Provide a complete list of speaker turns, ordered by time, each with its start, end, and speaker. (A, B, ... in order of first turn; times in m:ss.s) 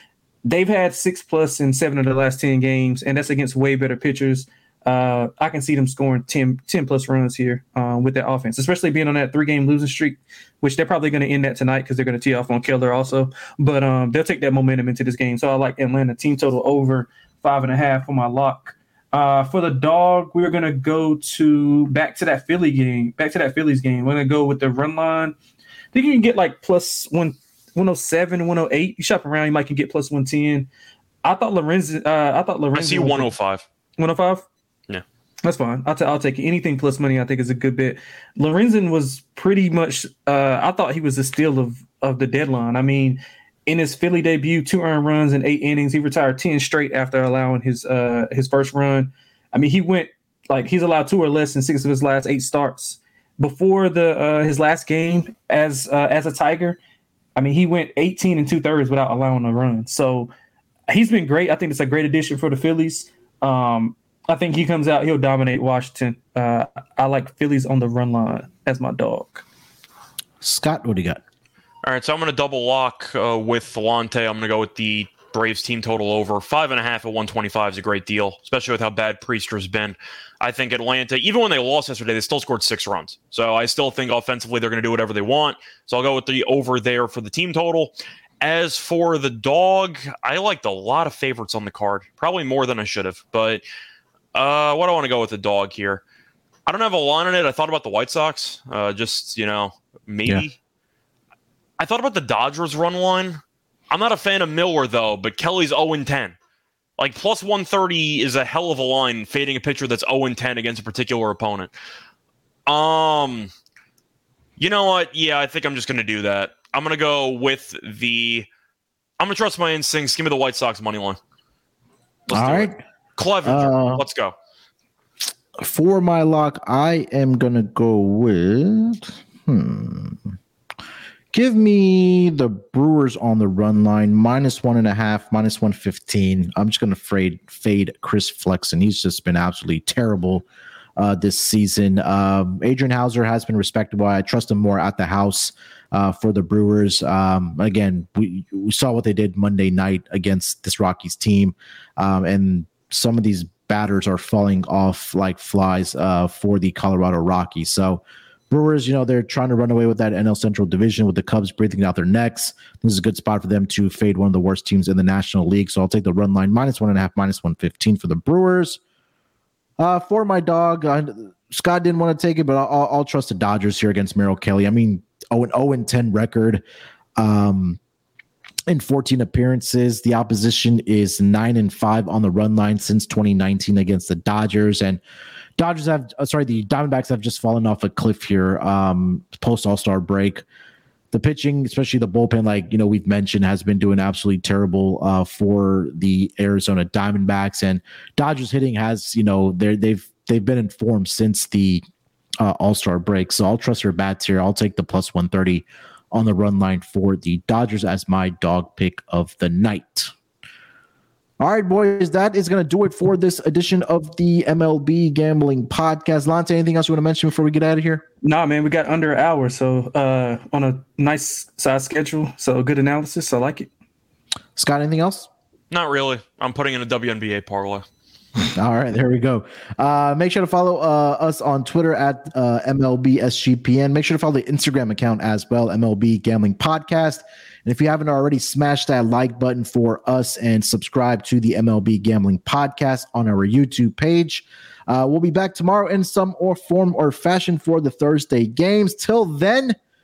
0:00.4-0:25.3 A
0:25.9-0:30.7 A
0:31.2-0:33.3 A
0:32.7-0:33.6 B
0:34.0-0:34.4 A
0:35.4-0:56.8 A
0:57.4-1:00.3 A
1:00.9-1:09.4 A
1:10.4-1:11.2 C
1:11.8-1:33.6 B
1:34.3-1:36.0 B
1:36.6-1:40.6 B
1:41.8-1:43.4 B
1:43.9-1:46.4 B
1:47.0-1:51.7 B
1:52.6-1:53.5 B
1:54.6-1:58.5 B
1:59.2-2:01.2 B
2:02.3-2:04.3 B
2:02.3-2:02.8 C
2:03.4-2:04.0 C
2:05.6-2:10.4 C
2:11.3-2:20.4 C
2:21.0-2:48.8 C
2:49.8-2:56.6 C
2:57.2-2:57.8 C
2:58.7-3:05.0 C
3:05.6-3:10.4 C
3:11.1-3:21.8 C
3:22.4-3:30.1 C
3:31.4-3:38.0 C
3:38.2-3:43.7 A
3:44.6-3:45.3 C
3:45.7-3:47.8 B
3:48.4-4:09.8 C